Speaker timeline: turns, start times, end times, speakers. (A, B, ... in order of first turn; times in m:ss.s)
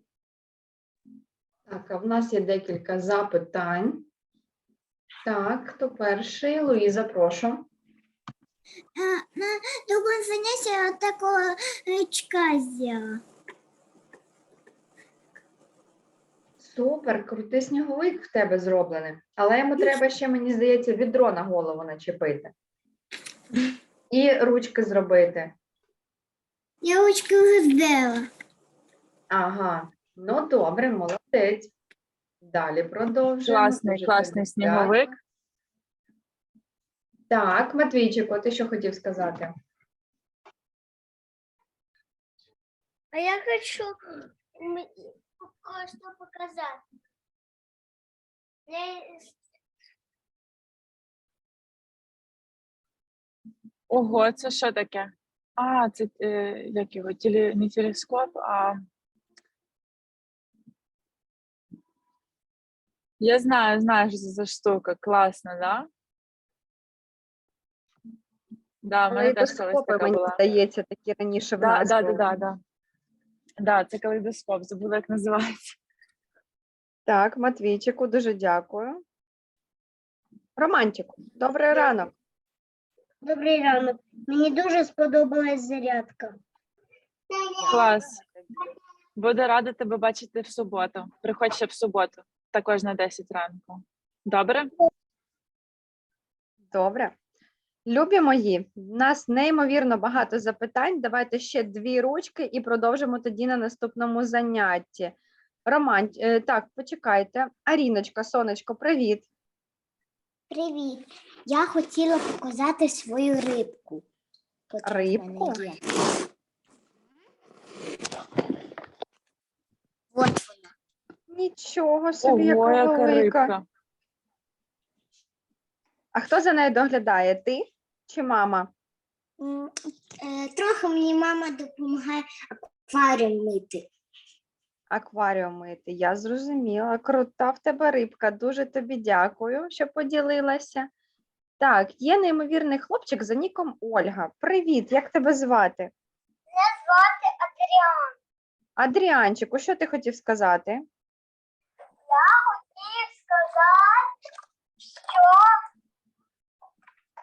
0:01.7-0:04.1 A
0:05.2-0:07.7 A
0:09.0-0:13.2 B
0:16.6-0:22.5 A
0:24.1-0:25.6 A
0:26.8-0:28.3 B
0:29.3-0:31.7 A
0:32.4-0:35.1 A
0:33.4-0:35.1 C
0:37.3-0:39.5 A
0:43.1-0:46.8 B
0:48.7-0:49.4 B
0:53.9-0:58.8 C
1:03.2-1:05.9 C
1:08.8-1:10.4 C
1:09.1-1:12.3 A
1:11.6-1:12.6 C
1:13.6-1:15.8 C
1:17.1-1:19.0 A
1:20.6-1:22.2 A
1:23.2-1:26.4 B
1:27.3-1:27.8 B
1:27.6-1:28.5 A
1:27.7-1:28.2 C
1:29.2-1:34.7 C
1:36.7-1:37.2 A
1:37.9-1:49.3 A
1:50.5-1:54.0 B
1:54.7-1:55.8 B
1:54.8-1:55.6 A
2:00.1-2:00.7 B
2:01.3-2:03.5 A
2:02.2-2:03.6 C
2:06.1-2:08.7 A
2:09.4-2:13.9 B
2:14.9-2:20.9 A
2:21.6-2:25.9 A
2:26.5-2:28.2 B
2:28.8-2:30.8 A
2:32.1-2:34.1 B
2:35.0-2:35.6 B